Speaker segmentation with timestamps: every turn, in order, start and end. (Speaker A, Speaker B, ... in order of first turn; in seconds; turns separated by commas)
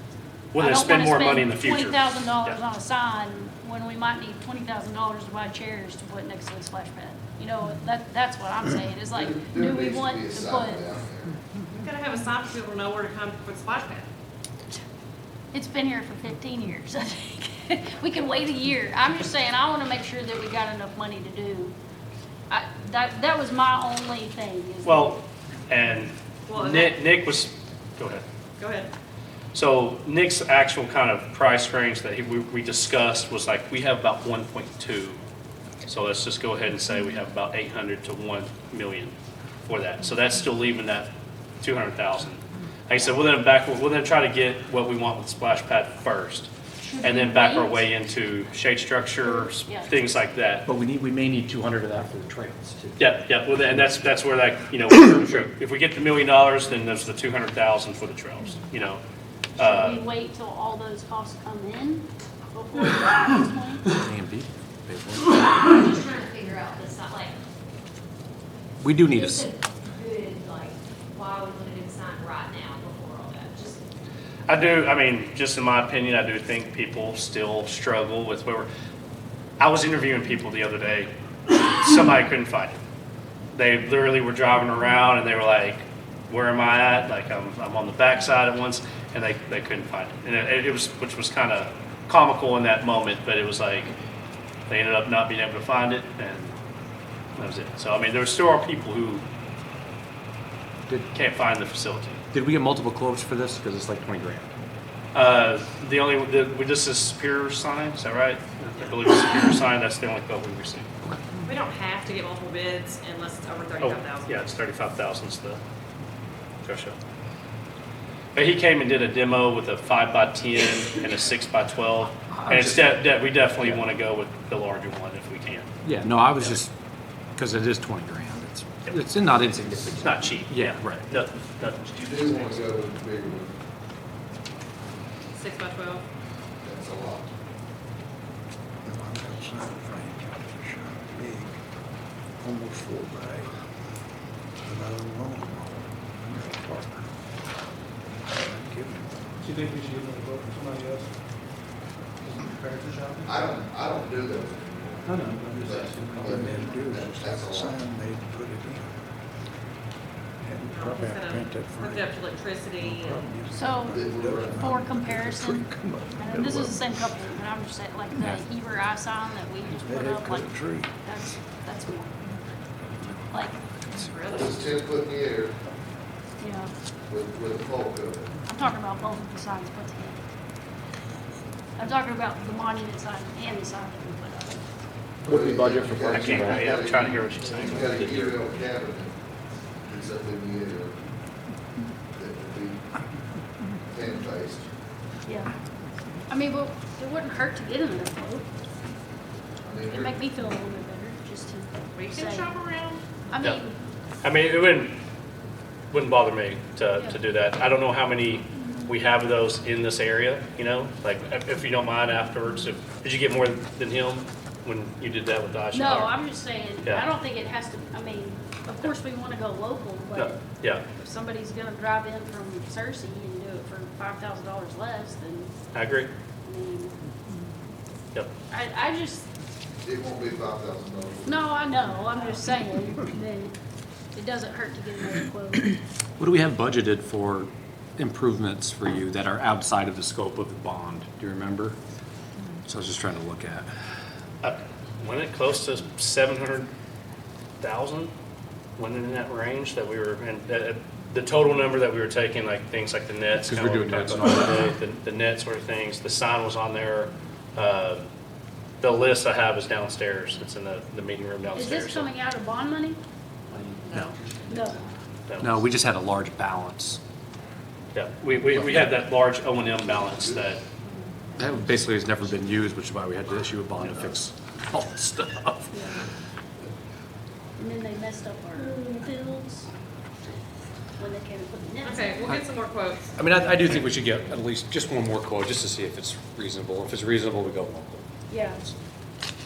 Speaker A: 0.5-2.6, Speaker B: 0.6-10.9, Speaker C: 9.1-11.3, Speaker D: 11.7-14.1, Speaker B: 15.5-21.7, Speaker B: 22.5-25.2, Speaker A: 24.8-28.2, Speaker D: 26.5-27.0, Speaker D: 28.6-28.9, Speaker A: 29.5-35.2, Speaker A: 35.9-39.1, Speaker A: 39.6-50.6, Speaker B: 46.8-47.9, Speaker B: 49.2-49.9, Speaker E: 50.7-53.1, Speaker A: 53.0-59.0, Speaker E: 53.7-54.0, Speaker A: 59.6-60.0, Speaker B: 59.6-64.0, Speaker E: 63.9-65.4, Speaker F: 65.7-67.3, Speaker E: 68.8-69.5, Speaker F: 69.1-73.8, Speaker A: 74.5-78.7, Speaker A: 79.6-82.8, Speaker A: 83.5-93.9, Speaker A: 94.7-96.5, Speaker A: 97.3-99.2, Speaker A: 101.1-102.2, Speaker E: 102.3-104.5, Speaker A: 105.1-110.9, Speaker E: 111.0-111.5, Speaker D: 111.5-114.4, Speaker A: 113.8-115.6, Speaker A: 116.6-117.0, Speaker A: 118.3-125.7, Speaker E: 122.4-123.0, Speaker E: 123.5-123.9, Speaker E: 125.8-126.7, Speaker E: 127.3-131.1, Speaker A: 129.9-131.8, Speaker C: 131.8-133.5, Speaker D: 135.3-136.0, Speaker C: 136.6-137.3, Speaker G: 138.8-141.6, Speaker G: 142.4-143.6, Speaker G: 144.6-147.1, Speaker G: 148.3-149.3, Speaker H: 149.4-151.2, Speaker H: 152.2-153.4, Speaker C: 153.2-157.8, Speaker H: 155.1-156.7, Speaker G: 155.5-158.9, Speaker G: 160.4-166.9, Speaker D: 160.7-163.2, Speaker B: 163.5-172.2, Speaker C: 163.8-164.8, Speaker G: 168.1-168.4, Speaker G: 169.8-170.9, Speaker B: 173.3-173.6, Speaker D: 174.0-174.6, Speaker C: 174.3-175.6, Speaker B: 176.4-176.7, Speaker C: 177.1-178.4, Speaker B: 178.5-180.2, Speaker B: 181.8-184.6, Speaker E: 185.2-188.4, Speaker C: 185.2-189.2, Speaker A: 186.1-187.9, Speaker C: 189.8-191.0, Speaker C: 192.1-192.9, Speaker C: 193.8-194.7, Speaker B: 196.3-198.4, Speaker C: 199.6-200.3, Speaker B: 199.9-202.6, Speaker D: 201.9-203.0, Speaker B: 203.3-203.8, Speaker A: 204.2-205.0, Speaker A: 205.9-216.2, Speaker B: 215.7-225.5, Speaker A: 220.1-220.8, Speaker A: 225.7-226.1, Speaker B: 226.4-227.0, Speaker B: 228.5-229.3, Speaker C: 229.8-231.6, Speaker B: 231.2-233.5, Speaker B: 234.1-235.8, Speaker E: 236.2-241.8, Speaker E: 242.6-243.7, Speaker A: 244.4-246.7, Speaker A: 247.6-248.1, Speaker A: 248.8-258.0, Speaker E: 253.4-254.7, Speaker A: 258.8-262.1, Speaker B: 261.6-263.0, Speaker B: 264.5-264.8, Speaker A: 265.3-265.6, Speaker E: 265.4-267.0, Speaker A: 267.9-270.6, Speaker E: 268.5-268.9, Speaker C: 270.0-270.4, Speaker E: 271.4-275.8, Speaker B: 275.7-276.0, Speaker B: 277.6-279.7, Speaker B: 281.0-282.3, Speaker D: 281.8-283.1, Speaker E: 283.1-288.8, Speaker B: 288.3-288.7